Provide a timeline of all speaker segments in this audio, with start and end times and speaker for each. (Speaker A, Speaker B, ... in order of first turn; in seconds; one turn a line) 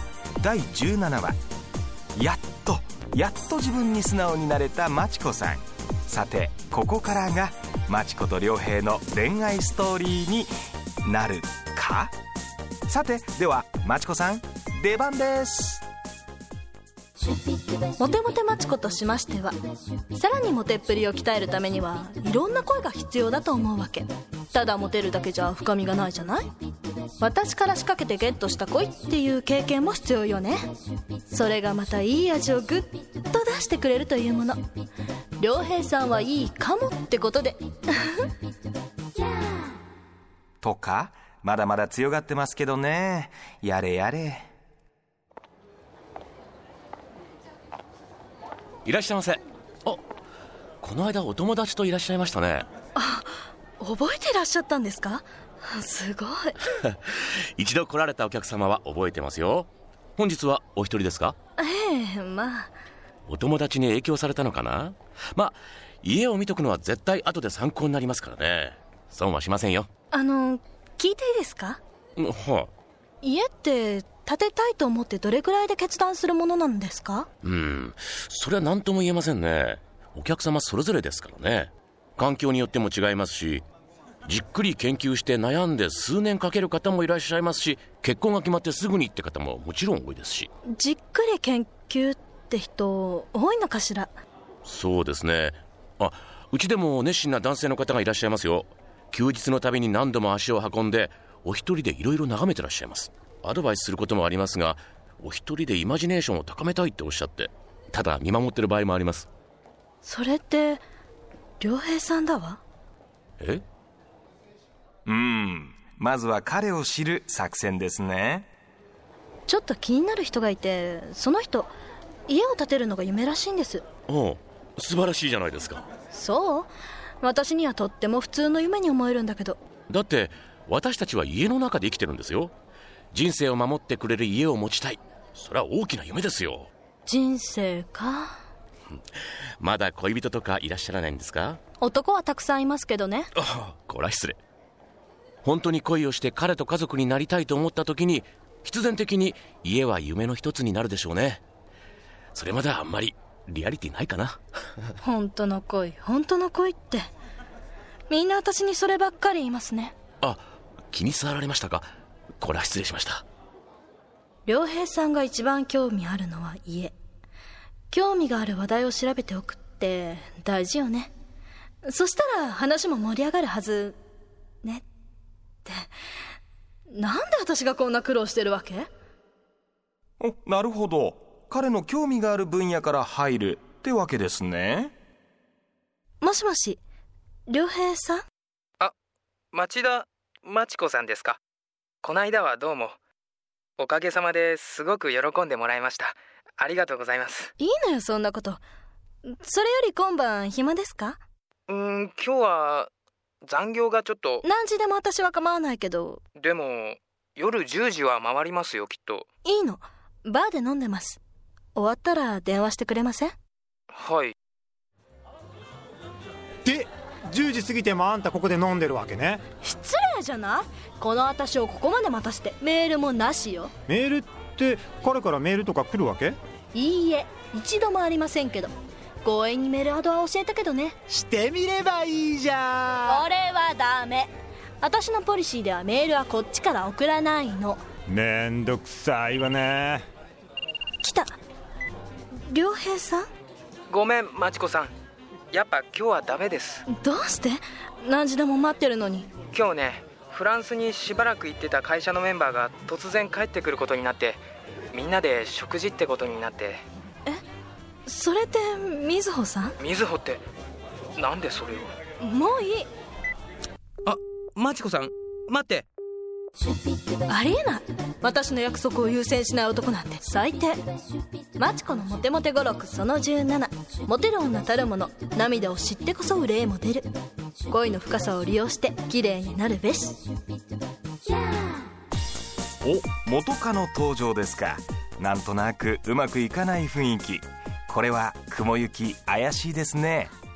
Speaker A: 0.4-1.4
Speaker A: 2.1-10.5
Speaker A: 11.0-12.1
Speaker A: 12.9-15.8
Speaker B: 17.9-19.5
Speaker B: 20.1-26.5
Speaker B: 27.2-30.6
Speaker B: 31.3-34.6
Speaker B: 35.4-38.3
Speaker A: 40.6-44.5
Speaker C: 48.8-50.0
Speaker C: 50.8-52.6
Speaker B: 53.0-56.6
Speaker C: 56.8-61.4
Speaker B: 61.6-62.7
Speaker C: 63.3-69.9
Speaker B: 70.1-71.8
Speaker C: 72.2-72.7
Speaker B: 73.2-77.3
Speaker C: 77.4-83.6
Speaker C: 84.2-90.5
Speaker B: 90.7-94.1
Speaker C: 94.6-109.3
Speaker B: 110.0-110.8
Speaker B: 111.6-112.6
Speaker A: 115.1-118.5
Speaker B: 119.5-121.7
Speaker B: 122.3-123.8
Speaker C: 124.1-125.8
Speaker B: 126.1-129.6
Speaker C: 129.9-132.5
Speaker C: 133.1-136.7
Speaker B: 137.1-138.4
Speaker C: 139.6-141.6
Speaker B: 141.8-143.3
Speaker C: 143.4-144.4
Speaker C: 145.4-151.4
Speaker C: 152.3-154.4
Speaker B: 155.0-157.0
Speaker B: 158.1-159.9
Speaker C: 160.2-161.9
Speaker C: 162.4-163.2
Speaker B: 164.4-166.9
Speaker B: 167.9-171.1
Speaker B: 171.8-174.0
Speaker B: 176.9-178.9
Speaker A: 180.2-184.9
Speaker B: 186.2-186.8
Speaker B: 187.5-188.2
Speaker D: 189.5-191.4
Speaker D: 192.0-192.9
Speaker D: 193.8-197.5
Speaker B: 197.6-198.6
Speaker B: 199.2-201.2
Speaker D: 201.7-202.9
Speaker D: 203.4-204.4
Speaker B: 204.4-206.2
Speaker D: 206.4-209.3
Speaker B: 209.4-211.2
Speaker B: 211.7-213.3
Speaker D: 213.9-214.3
Speaker E: 216.6-219.4
Speaker B: 219.6-223.7
Speaker E: 223.9-226.4
Speaker B: 226.7-228.7
Speaker B: 229.2-231.0
Speaker E: 231.1-233.2
Speaker B: 233.0-237.8
Speaker E: 238.1-240.0
Speaker B: 241.0-241.3
Speaker B: 242.5-243.3
Speaker D: 243.9-244.9
Speaker D: 245.5-246.8
Speaker B: 246.9-249.3
Speaker D: 249.5-256.8
Speaker B: 258.1-259.8
Speaker D: 259.8-260.4
Speaker D: 261.1-261.9
Speaker B: 262.2-262.9
Speaker B: 267.2-270.8
Speaker B: 271.5-277.1
Speaker B: 277.7-280.2
Speaker A: 282.8-290.3